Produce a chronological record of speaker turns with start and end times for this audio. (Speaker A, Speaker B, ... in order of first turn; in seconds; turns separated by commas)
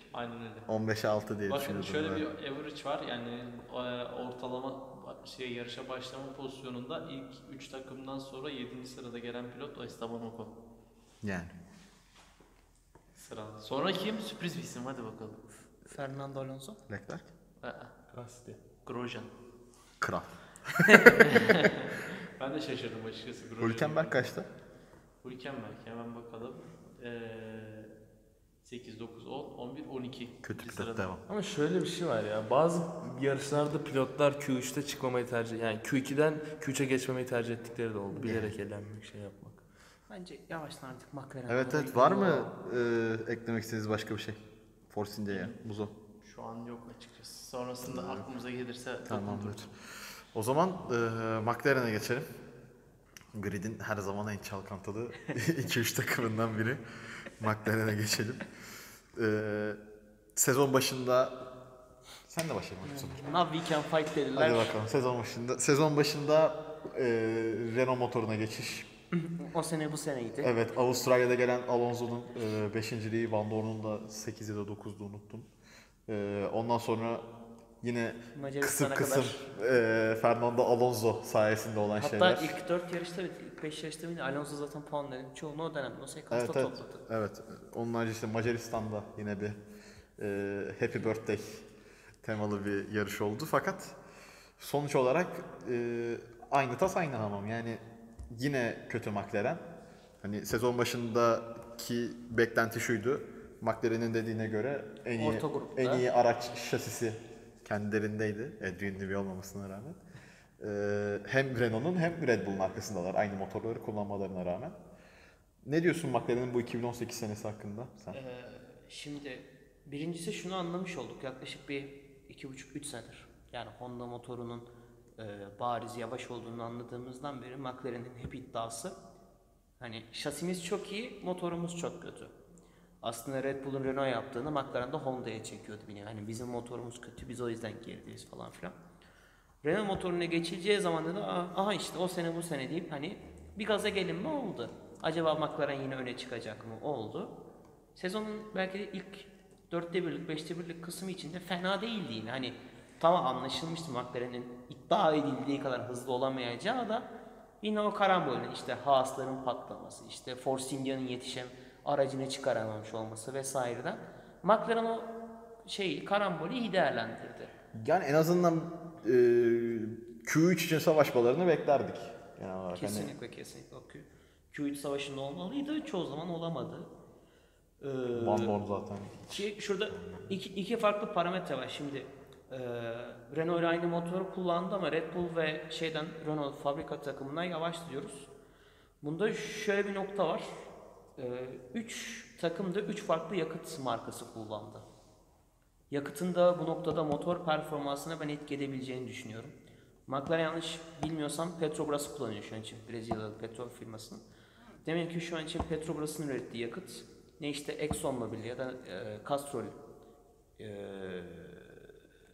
Speaker A: 0.1-0.7, Speaker B: 0.7-2.3, Speaker A: 1.5-10.5, Speaker B: 11.2-11.5, Speaker A: 13.2-15.4, Speaker C: 15.9-16.8, Speaker B: 16.9-17.3, Speaker A: 17.6-17.9, Speaker D: 18.1-18.6, Speaker A: 18.9-19.3, Speaker B: 20.0-21.3, Speaker C: 20.9-21.3, Speaker A: 21.2-24.3, Speaker B: 23.6-24.5, Speaker A: 25.2-27.9, Speaker A: 28.6-31.1, Speaker B: 30.4-31.2, Speaker D: 31.3-39.6, Speaker B: 38.1-38.5, Speaker C: 40.1-42.5, Speaker B: 41.5-45.9, Speaker A: 45.3-45.6, Speaker A: 46.2-49.7, Speaker B: 47.9-48.3, Speaker B: 49.1-49.7, Speaker B: 50.3-52.3, Speaker B: 53.3-58.4, Speaker B: 59.1-59.8, Speaker B: 60.4-61.4, Speaker B: 62.3-63.2, Speaker C: 62.8-64.7, Speaker B: 64.3-68.9, Speaker C: 69.1-70.5, Speaker B: 70.4-75.5, Speaker B: 76.1-77.3, Speaker B: 77.8-82.6, Speaker C: 78.3-79.4, Speaker C: 82.0-87.0, Speaker B: 86.3-89.6, Speaker B: 90.2-91.7, Speaker B: 92.2-94.0, Speaker B: 94.6-99.7, Speaker B: 100.2-110.0, Speaker C: 105.2-106.0, Speaker B: 110.6-114.8, Speaker B: 115.7-118.2, Speaker C: 118.1-129.0, Speaker C: 129.8-132.3, Speaker C: 133.0-138.8, Speaker C: 139.6-147.4, Speaker C: 147.9-157.1, Speaker C: 157.6-165.1, Speaker C: 165.6-167.5, Speaker B: 167.7-173.1, Speaker C: 172.7-176.9, Speaker C: 177.8-178.6, Speaker B: 178.1-180.4, Speaker C: 179.3-188.3, Speaker C: 189.0-190.6, Speaker C: 191.2-194.9, Speaker C: 195.9-199.6, Speaker C: 200.1-204.2, Speaker C: 204.8-209.8, Speaker C: 210.6-211.9